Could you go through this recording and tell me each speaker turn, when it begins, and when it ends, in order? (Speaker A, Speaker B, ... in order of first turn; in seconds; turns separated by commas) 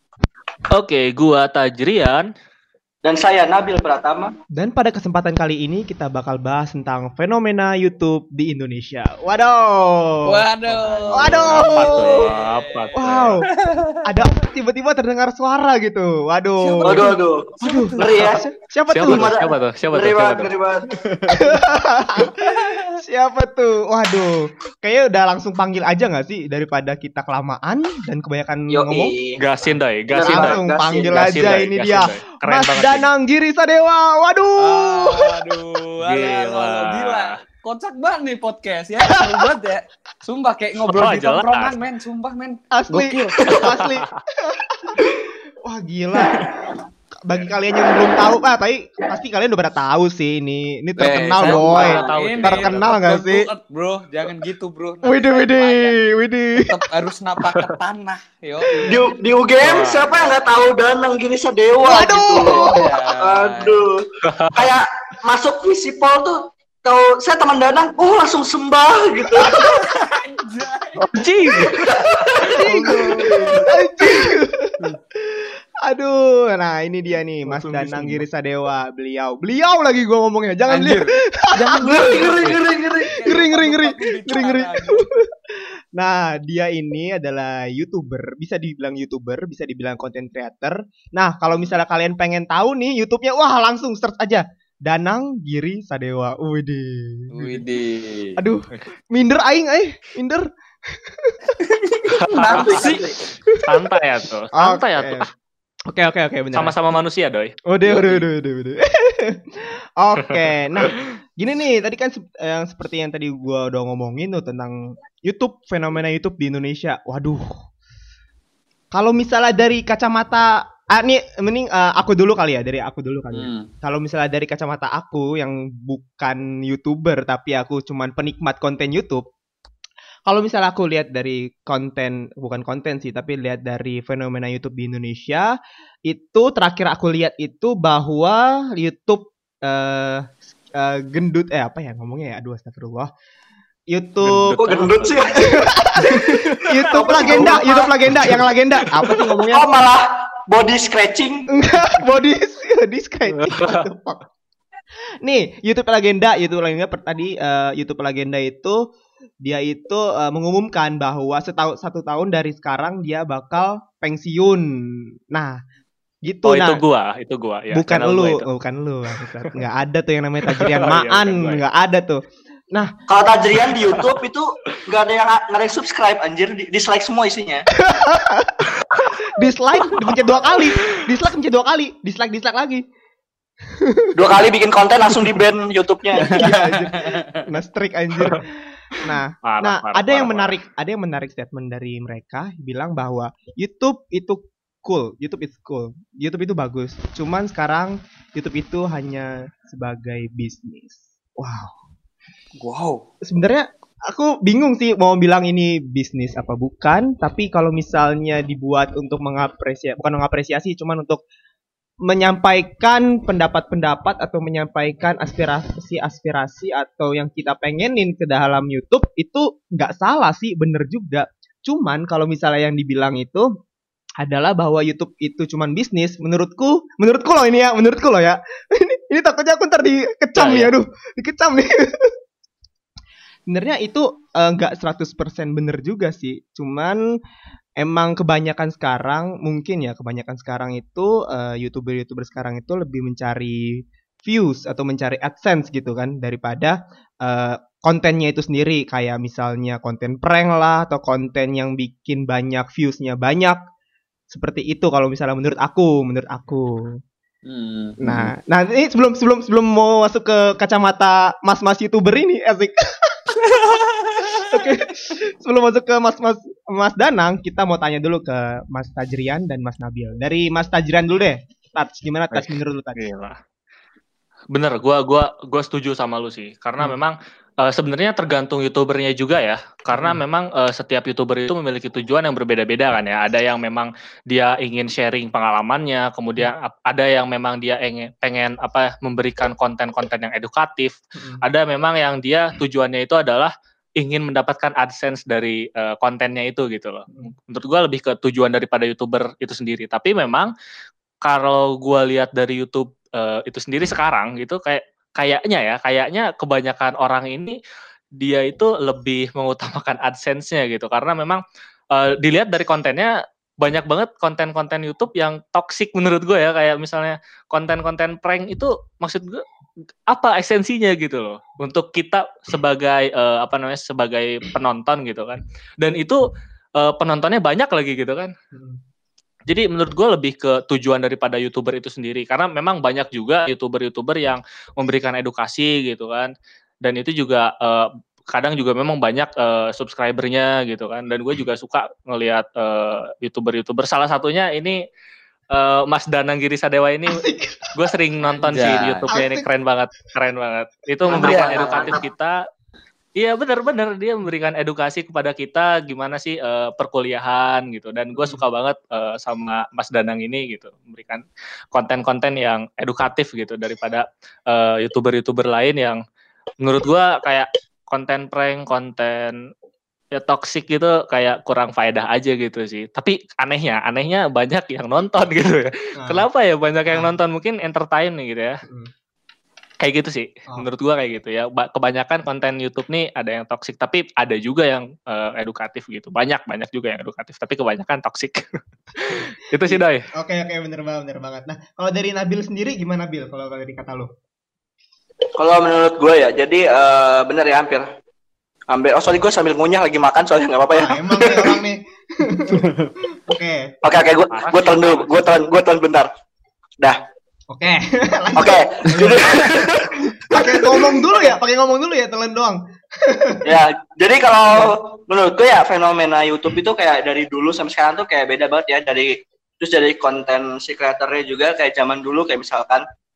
Speaker A: 0.7-2.3, Speaker B: 3.0-4.4, Speaker C: 4.5-10.4, Speaker D: 10.2-12.9, Speaker A: 10.7-13.4, Speaker C: 11.2-12.3, Speaker C: 13.0-13.5, Speaker D: 13.5-14.0, Speaker C: 14.0-17.1, Speaker D: 16.6-18.1, Speaker B: 16.8-18.4, Speaker C: 17.6-19.3, Speaker A: 18.9-21.6, Speaker B: 19.0-20.8, Speaker C: 21.3-29.1, Speaker D: 22.4-22.9, Speaker B: 28.7-29.4, Speaker A: 29.4-33.1, Speaker C: 29.7-35.4, Speaker B: 30.1-31.5, Speaker D: 34.6-43.4, Speaker A: 36.0-37.3, Speaker A: 40.9-41.8, Speaker C: 42.7-46.7, Speaker A: 43.5-44.0, Speaker C: 47.2-53.5, Speaker D: 51.0-56.0, Speaker A: 51.3-53.0, Speaker B: 51.7-52.1, Speaker C: 55.0-56.8, Speaker D: 56.6-59.0, Speaker C: 58.7-59.0, Speaker B: 58.8-69.8, Speaker A: 59.6-60.2, Speaker C: 61.8-62.8, Speaker D: 62.6-63.8, Speaker A: 64.2-64.7, Speaker D: 69.4-71.0, Speaker A: 71.0-72.7, Speaker B: 71.6-72.6, Speaker C: 72.5-73.0, Speaker D: 72.5-73.7, Speaker C: 73.5-82.3, Speaker A: 77.5-78.2, Speaker D: 80.7-82.5, Speaker B: 81.8-83.2, Speaker D: 83.0-85.1, Speaker C: 83.2-97.6, Speaker D: 97.3-98.4, Speaker C: 98.4-101.4, Speaker D: 101.6-103.1, Speaker A: 102.1-102.9, Speaker B: 102.5-103.2, Speaker C: 103.5-103.9, Speaker A: 103.6-105.3, Speaker C: 104.5-105.3, Speaker C: 105.9-106.8, Speaker A: 106.5-107.5, Speaker C: 107.7-117.5, Speaker D: 107.9-108.2, Speaker C: 118.9-129.3, Speaker D: 123.3-123.7, Speaker C: 130.3-135.5, Speaker C: 136.1-143.1, Speaker C: 143.9-144.6, Speaker A: 144.2-145.3, Speaker B: 144.6-147.9, Speaker C: 145.4-149.7, Speaker A: 146.7-147.6, Speaker A: 148.1-149.3, Speaker B: 149.5-151.5, Speaker C: 151.5-154.2, Speaker A: 153.3-153.8, Speaker C: 155.2-158.8, Speaker C: 159.4-165.6, Speaker C: 166.2-166.8, Speaker A: 166.5-168.5, Speaker C: 167.7-172.9, Speaker A: 170.5-171.6, Speaker B: 173.1-177.7, Speaker C: 177.8-178.7, Speaker A: 178.8-179.1, Speaker C: 179.3-182.8, Speaker A: 180.8-181.0, Speaker C: 183.8-184.1, Speaker B: 184.2-186.7, Speaker C: 185.1-185.4, Speaker C: 186.2-201.8, Speaker D: 186.3-187.4, Speaker A: 189.4-190.6, Speaker D: 202.6-203.0, Speaker C: 203.2-211.2, Speaker C: 212.1-223.5, Speaker C: 224.2-232.1, Speaker A: 230.4-230.7, Speaker C: 233.5-237.0, Speaker C: 237.8-253.6, Speaker C: 254.3-257.0, Speaker D: 257.5-258.0, Speaker C: 258.0-263.3, Speaker D: 263.4-264.5, Speaker C: 264.2-273.0, Speaker A: 272.3-273.4, Speaker A: 274.5-300.5, Speaker C: 279.9-280.2, Speaker A: 301.2-307.6, Speaker A: 308.2-311.4, Speaker A: 311.9-319.4, Speaker A: 320.1-326.2, Speaker A: 326.8-328.3, Speaker C: 328.5-328.8, Speaker A: 329.5-336.3, Speaker A: 336.8-344.8, Speaker A: 345.5-347.2, Speaker C: 347.1-347.7, Speaker A: 347.8-352.4, Speaker D: 348.4-349.1, Speaker C: 348.5-349.5, Speaker C: 351.1-351.9, Speaker B: 351.1-351.9, Speaker D: 351.1-352.0, Speaker A: 353.2-366.0, Speaker A: 366.6-369.4, Speaker A: 370.1-378.6, Speaker C: 376.0-376.3, Speaker C: 376.9-377.2, Speaker C: 378.7-378.9, Speaker A: 379.8-390.0, Speaker C: 389.1-394.1, Speaker B: 395.4-397.9, Speaker B: 398.7-401.5, Speaker C: 400.7-403.7, Speaker B: 403.8-406.1, Speaker A: 404.3-405.3, Speaker C: 407.5-409.7, Speaker B: 408.4-411.3, Speaker C: 410.3-413.6, Speaker B: 413.4-422.9